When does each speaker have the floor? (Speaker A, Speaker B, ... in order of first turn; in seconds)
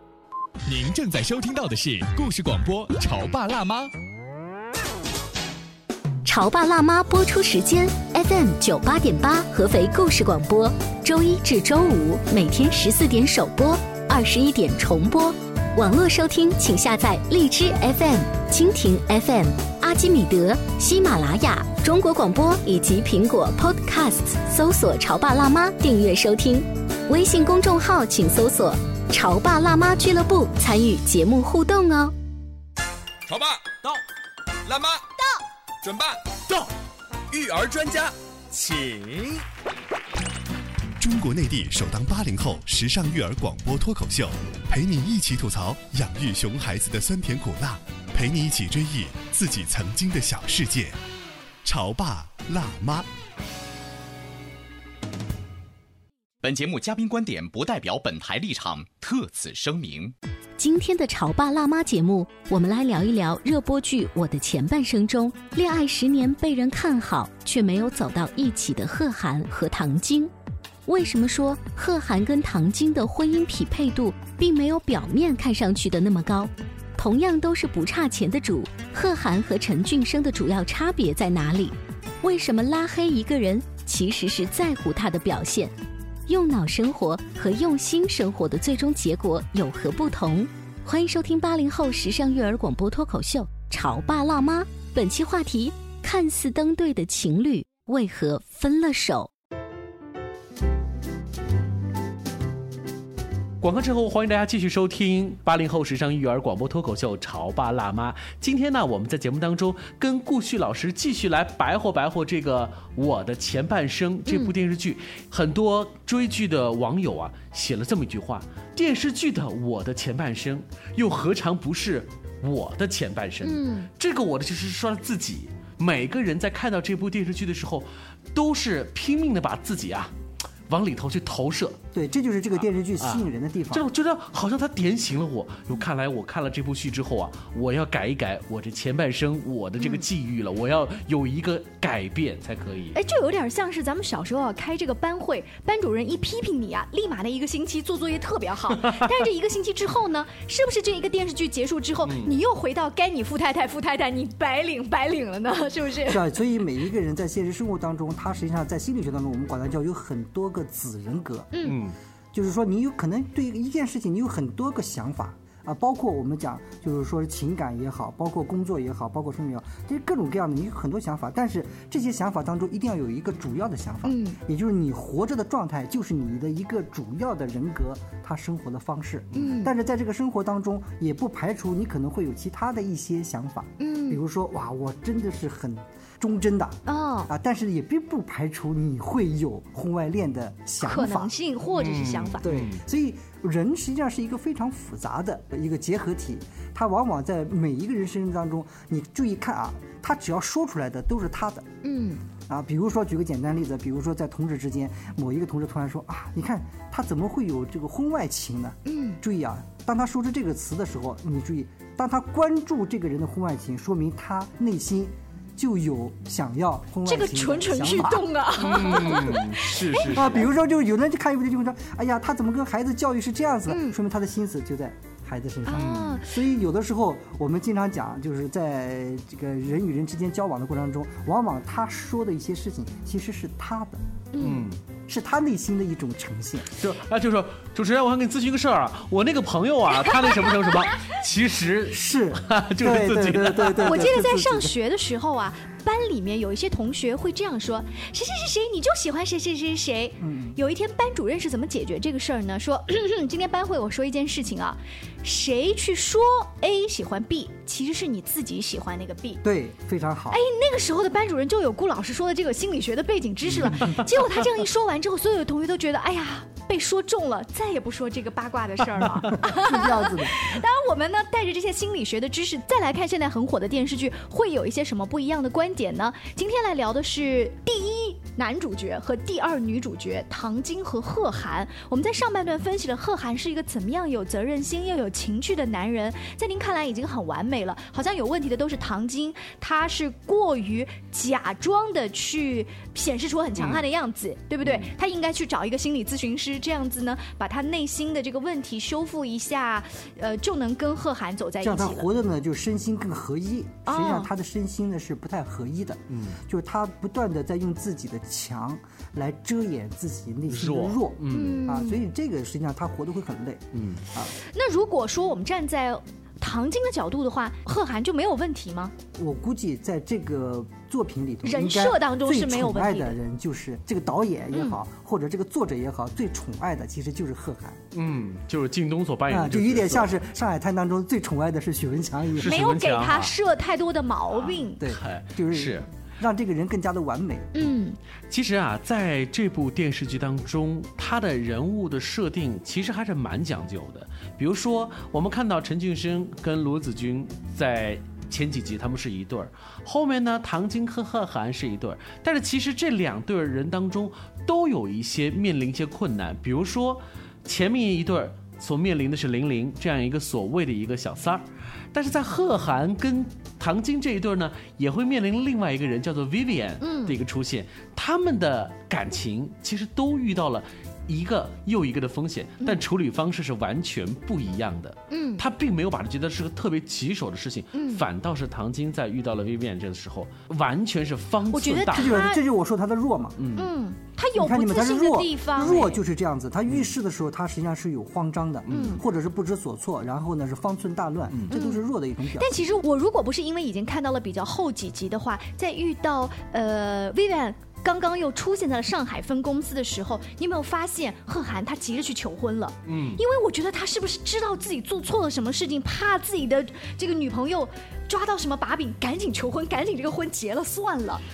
Speaker A: 0.7-3.9
Speaker B: 6.2-32.1, 60.6-70.3, 70.8-85.7, 86.3-99.3
Speaker C: 33.3-34.0, 34.6-35.0, 35.8-36.7, 37.3-39.4
Speaker D: 41.0-51.0, 51.6-53.1
Speaker E: 56.4-60.1
Speaker F: 103.6-130.1, 130.7-131.8, 133.0-143.0, 152.0-152.3, 161.6-161.9, 191.7-192.8, 218.6-220.5, 225.7-226.2, 234.4-234.8, 236.8-244.1, 263.5-263.9, 293.6-293.8, 294.6-294.9, 306.1-306.4, 310.5-311.7, 313.7-314.0, 327.9-330.1, 332.4-333.3, 334.3-335.9, 338.3-382.2, 383.4-383.7, 386.7-386.9, 388.7-389.0, 402.9-403.2
Speaker G: 114.3-114.5, 123.4-123.9, 139.8-140.0, 142.9-156.2, 161.5-161.8, 174.0-174.4, 179.3-179.7, 183.8-184.2, 186.9-187.3, 190.8-192.5, 201.8-202.2, 208.8-209.2, 217.1-220.3, 223.7-223.9, 225.7-226.3, 234.3-234.7, 240.1-241.0, 243.8-259.4, 260.3-302.1, 303.9-304.3, 311.3-312.0, 314.4-318.9, 321.4-323.2, 332.4-334.8, 337.5-338.0, 366.8-367.1, 375.1-375.4, 377.7-378.0, 381.5-382.4, 383.6-386.0, 388.7-389.0, 391.5-391.8, 392.3-411.2
Speaker H: 131.9-133.9, 156.0-161.5, 162.3-191.3, 192.4-201.7, 202.5-218.3, 220.1-234.0, 235.1-236.8, 241.9-244.7, 250.2-250.6, 259.4-260.4, 263.6-264.0, 269.4-270.5, 301.6-314.4, 319.1-327.8, 329.3-332.6, 334.8-337.7, 381.9-383.4, 384.3-392.6